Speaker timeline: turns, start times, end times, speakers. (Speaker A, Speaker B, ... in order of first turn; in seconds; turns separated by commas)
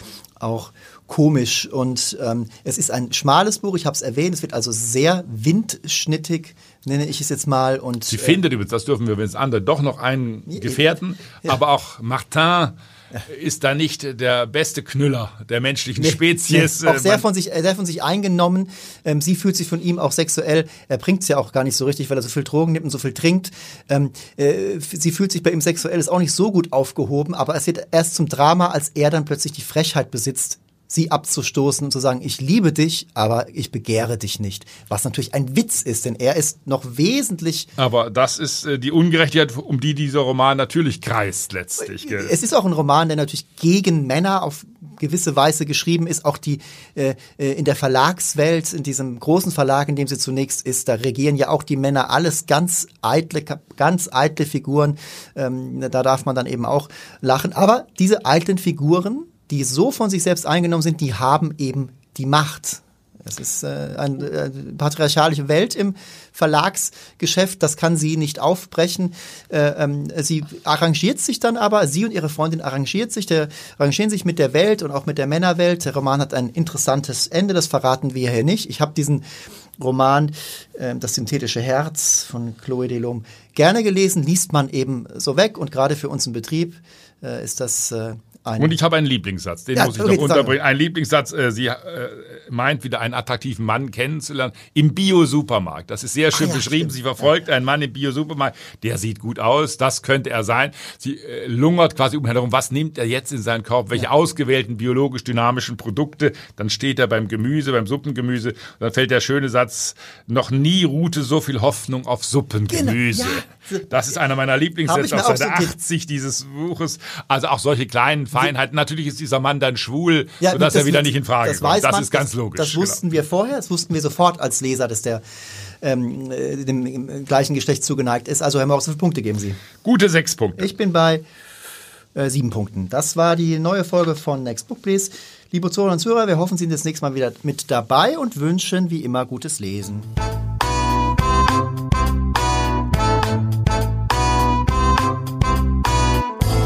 Speaker A: 0.4-8.4, Speaker B: 8.1-17.2, Speaker A: 10.5-10.8, Speaker A: 16.0-37.7, Speaker B: 37.8-42.3, Speaker A: 41.8-79.2, Speaker A: 79.8-88.8, Speaker B: 88.6-123.0, Speaker A: 89.8-90.5, Speaker A: 96.3-97.0, Speaker A: 112.7-113.9, Speaker A: 114.9-115.8, Speaker A: 120.4-125.2, Speaker A: 125.8-129.6, Speaker B: 129.8-130.7, Speaker A: 130.6-131.2, Speaker A: 132.2-140.1